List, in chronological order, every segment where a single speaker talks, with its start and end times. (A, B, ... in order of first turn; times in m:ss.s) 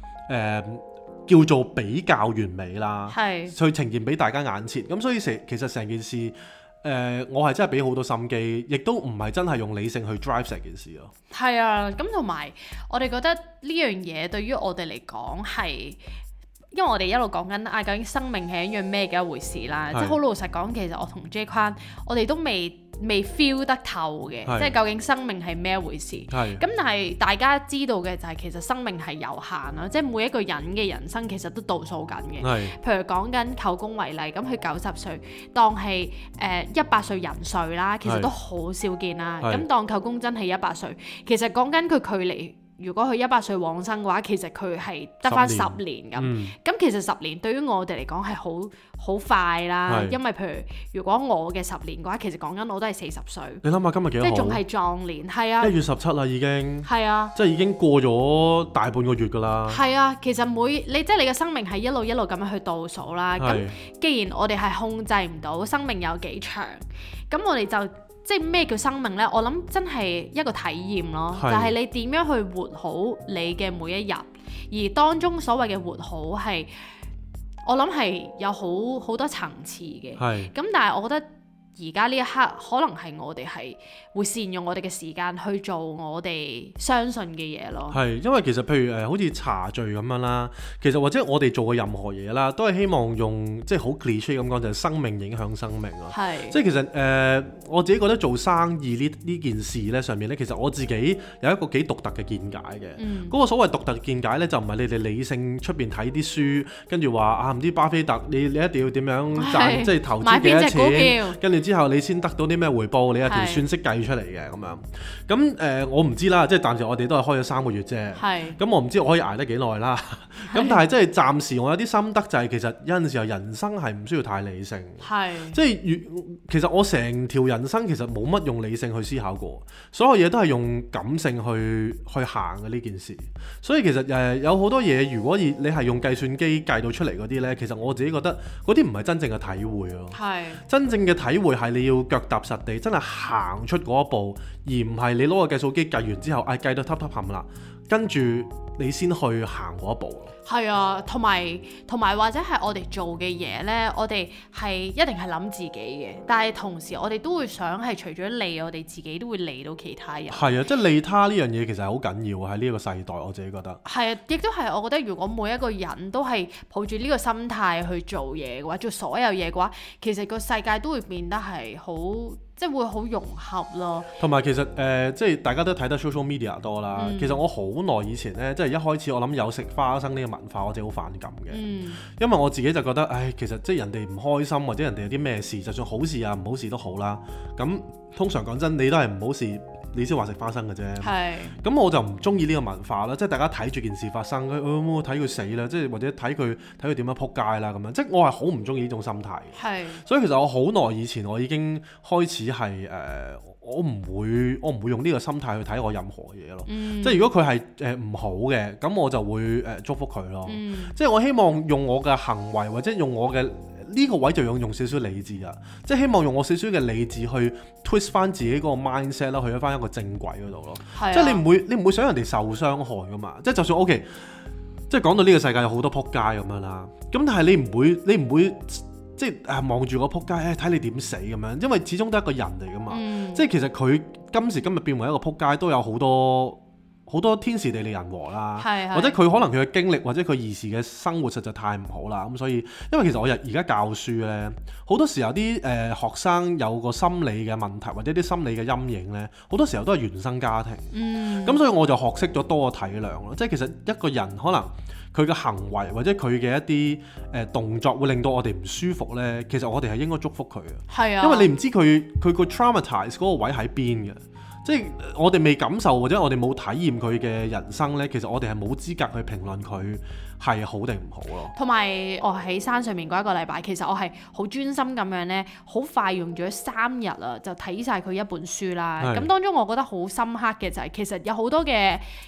0:00.3-0:11.1 A
0:03.1-0:03.6 B
0:11.3-0:16.0 B
0:16.7-0:53.6 B
0:19.9-0:20.2 A
0:24.5-0:24.8 A
0:26.3-0:26.6 A
0:32.4-0:32.8 A
0:38.0-0:38.3 A
0:45.3-0:46.5 A
0:49.9-0:50.2 A
0:53.6-0:54.6 A
0:54.2-0:55.7 B
0:55.6-0:59.8 A
0:56.8-0:57.3 B
0:59.7-1:16.7 B
1:03.4-1:03.8 A
1:11.4-1:11.8 A
1:17.6-1:21.3 B
1:20.2-1:20.5 A
1:21.8-1:28.0 B
1:27.9-2:30.3 A
1:36.1-1:36.6 B
1:43.0-1:43.4 B
1:49.4-1:51.4 B
1:53.3-1:53.6 B
1:58.2-1:58.6 B
2:00.5-2:00.8 B
2:05.0-2:05.6 B
2:20.1-2:20.6 B
2:30.5-2:40.6 B
2:40.3-2:43.8 A
2:43.8-2:54.1 B
2:54.2-3:44.2 A
2:57.0-2:57.4 B
3:01.5-3:02.0 B
3:11.0-3:11.6 B
3:19.6-3:20.0 B
3:26.7-3:27.3 B
3:30.5-3:31.0 B
3:40.9-3:41.4 B
3:44.9-4:10.9 A
3:52.9-3:53.5 B
3:58.6-3:59.2 B
4:10.9-4:11.6 B
4:11.4-4:31.5 A
4:20.9-4:21.5 B
4:31.5-4:42.0 B
4:39.0-4:39.3 A